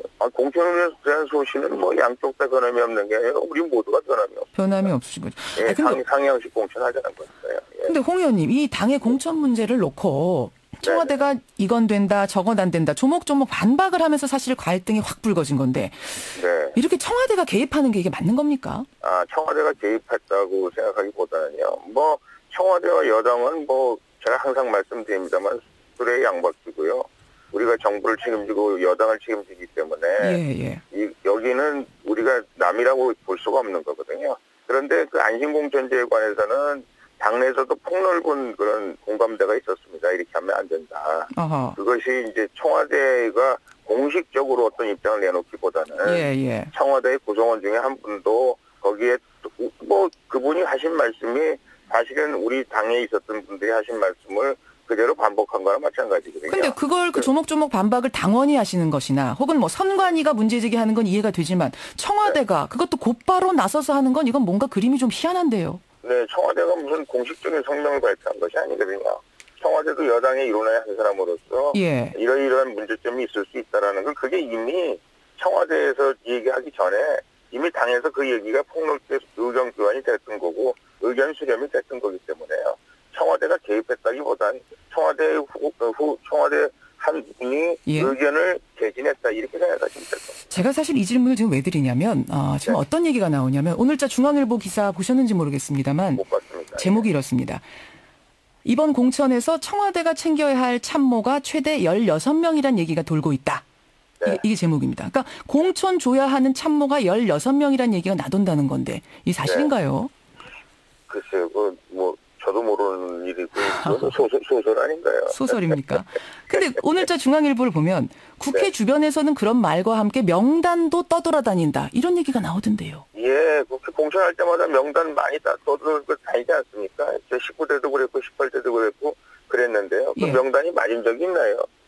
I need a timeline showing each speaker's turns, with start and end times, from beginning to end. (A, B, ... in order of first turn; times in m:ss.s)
0:00.2-0:04.9 A
0:04.5-0:06.0 B
0:05.6-0:07.9 A
0:07.8-0:18.9 B
0:10.8-0:11.2 A
0:16.3-0:16.8 A
0:19.0-0:57.3 A
0:30.2-0:30.8 B
0:41.3-0:41.8 B
0:46.0-0:46.7 B
0:56.5-1:05.8 B
1:06.0-1:30.4 A
1:11.7-1:12.1 B
1:27.9-1:28.1 B
1:30.5-1:36.2 B
1:36.2-1:37.1 A
1:36.8-1:37.6 B
1:38.6-1:43.6 B
1:44.2-1:50.1 B
1:49.4-1:49.7 A
1:51.1-1:55.8 A
1:53.6-1:54.1 B
1:55.3-2:03.0 B
2:03.1-2:11.6 A
2:10.2-2:10.4 B